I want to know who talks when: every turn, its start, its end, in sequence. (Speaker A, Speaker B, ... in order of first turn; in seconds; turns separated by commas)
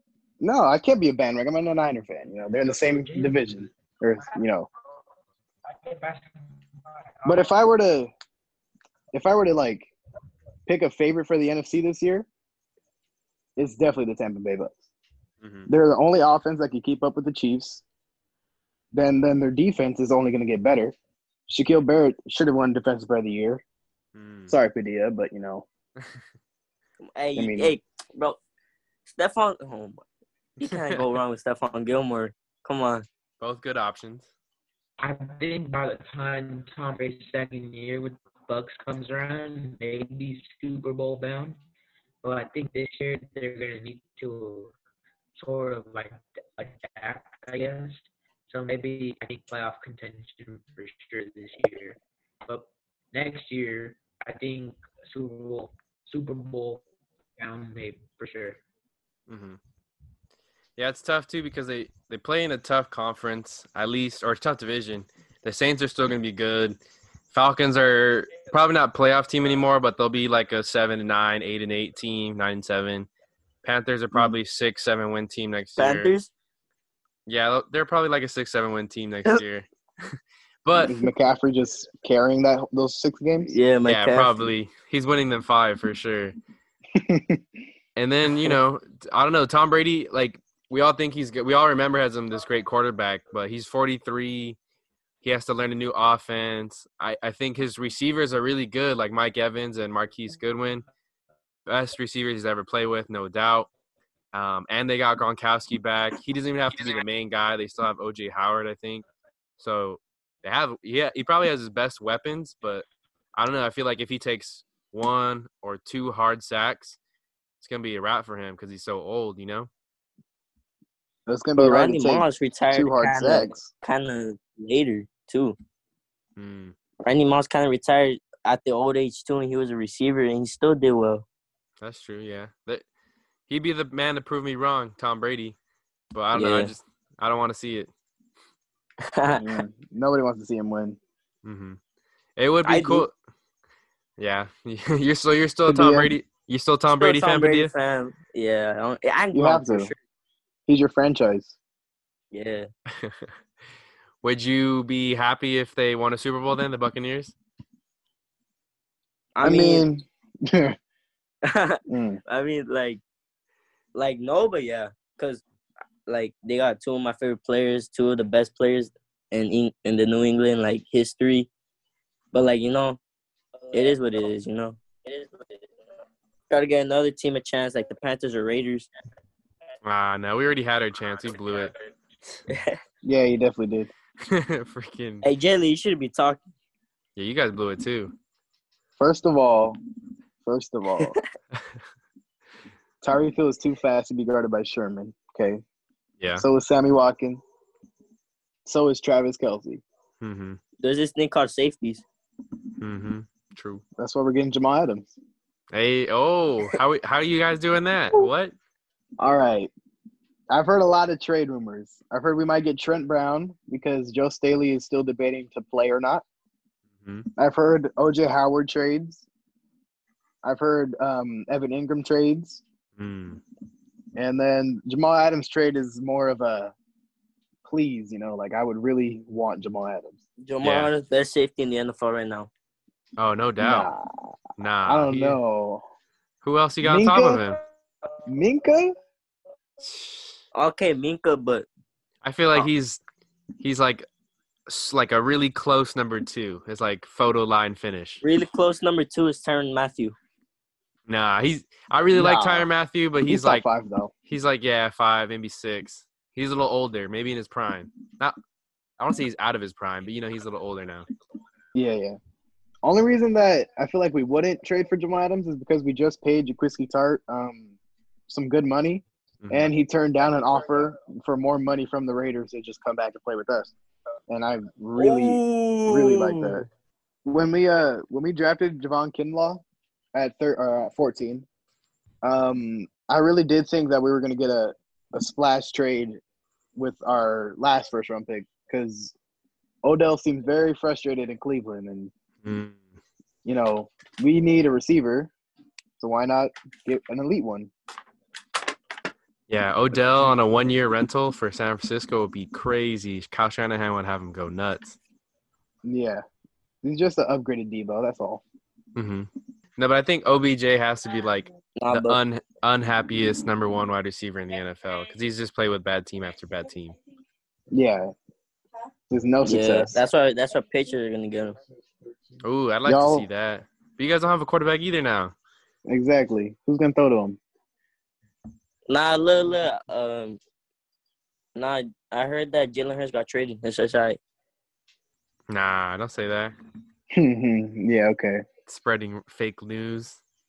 Speaker A: 0.4-4.7, Speaker B: 2.6-3.7, Speaker B: 5.7-7.5, Speaker A: 7.3-8.1, Speaker A: 9.1-9.9, Speaker A: 10.7-12.3, Speaker A: 13.6-14.8, Speaker C: 15.4-15.7, Speaker A: 15.7-17.8, Speaker A: 18.9-20.9, Speaker A: 21.5-23.6, Speaker C: 24.1-24.6, Speaker A: 24.5-25.6, Speaker D: 27.2-28.4, Speaker A: 27.4-27.8, Speaker D: 29.1-30.0, Speaker D: 30.6-33.1, Speaker C: 33.4-34.3, Speaker B: 35.0-41.6, Speaker B: 42.2-44.7, Speaker B: 45.4-56.8, Speaker B: 57.4-58.6, Speaker C: 59.3-59.6, Speaker C: 60.8-66.8, Speaker C: 67.3-73.1, Speaker C: 73.6-76.2, Speaker D: 75.8-76.3, Speaker C: 77.3-81.1, Speaker A: 80.8-83.5, Speaker D: 83.5-84.5, Speaker C: 83.8-86.4, Speaker A: 87.0-87.4, Speaker C: 88.0-94.6, Speaker C: 95.2-100.9, Speaker C: 101.7-103.7, Speaker C: 104.3-109.0, Speaker C: 109.6-117.0, Speaker C: 117.6-119.7, Speaker A: 121.3-123.7, Speaker D: 121.6-125.6, Speaker C: 126.4-126.8, Speaker D: 127.0-131.2, Speaker C: 131.8-132.8, Speaker C: 133.5-135.6, Speaker C: 136.1-137.9, Speaker D: 136.3-136.7, Speaker D: 139.1-139.6, Speaker A: 139.4-141.0, Speaker C: 141.4-141.8, Speaker C: 142.4-143.1, Speaker D: 142.7-143.1, Speaker C: 144.2-147.7, Speaker A: 145.7-146.1, Speaker D: 147.0-150.0, Speaker A: 149.3-149.9, Speaker A: 150.7-151.6, Speaker D: 152.3-152.7, Speaker C: 152.9-153.3, Speaker C: 154.2-157.3, Speaker D: 159.3-159.9, Speaker A: 159.4-160.8, Speaker D: 161.4-163.0, Speaker A: 161.9-162.2, Speaker D: 163.9-165.4, Speaker D: 166.1-171.5, Speaker D: 172.3-173.0, Speaker D: 173.7-175.8, Speaker D: 176.5-178.9, Speaker C: 179.8-181.7, Speaker D: 182.5-182.8, Speaker A: 183.0-183.9, Speaker C: 184.2-185.3, Speaker D: 185.2-186.5, Speaker C: 187.2-188.1, Speaker A: 189.0-189.8, Speaker A: 190.4-191.2, Speaker A: 193.0-195.6, Speaker C: 196.2-196.4, Speaker A: 196.4-197.4, Speaker A: 198.7-199.8, Speaker C: 200.2-200.6, Speaker D: 200.8-202.1, Speaker C: 202.8-203.8, Speaker A: 204.0-205.1, Speaker C: 205.7-208.6, Speaker A: 209.2-209.7, Speaker A: 210.5-216.2, Speaker C: 217.0-217.3, Speaker A: 217.4-219.2, Speaker A: 220.4-222.6, Speaker C: 223.0-223.4, Speaker A: 224.2-226.7, Speaker A: 227.7-230.2, Speaker D: 230.4-232.5, Speaker C: 230.6-230.9, Speaker C: 233.2-233.9, Speaker A: 233.6-235.8, Speaker C: 234.6-235.4, Speaker C: 236.4-237.6, Speaker A: 236.8-237.4, Speaker A: 238.3-238.9, Speaker C: 239.8-240.4, Speaker D: 240.5-241.7, Speaker C: 242.2-243.0, Speaker C: 243.6-244.1, Speaker C: 244.7-248.2, Speaker D: 248.2-250.2, Speaker C: 251.1-253.7, Speaker A: 252.1-252.7, Speaker A: 253.3-254.1, Speaker C: 254.3-258.4, Speaker C: 259.0-261.1, Speaker A: 261.8-262.2, Speaker A: 262.8-267.7, Speaker A: 268.3-273.7, Speaker C: 269.4-269.7, Speaker A: 274.3-276.7, Speaker D: 275.0-276.6, Speaker A: 277.3-279.6, Speaker A: 280.1-281.5, Speaker A: 282.2-286.2, Speaker A: 286.8-289.1, Speaker A: 289.8-292.1, Speaker C: 292.4-292.8, Speaker A: 293.4-295.3, Speaker A: 296.0-297.7, Speaker C: 299.5-305.0, Speaker A: 305.8-306.2, Speaker A: 306.8-308.4, Speaker C: 308.9-317.0, Speaker D: 311.8-312.2, Speaker A: 317.7-318.1, Speaker A: 319.1-320.0, Speaker D: 319.4-321.6, Speaker C: 322.4-325.3, Speaker A: 322.9-323.3, Speaker A: 325.9-327.4, Speaker D: 328.9-330.4, Speaker D: 331.6-334.2, Speaker C: 335.5-336.6, Speaker A: 337.1-338.4, Speaker C: 338.7-340.2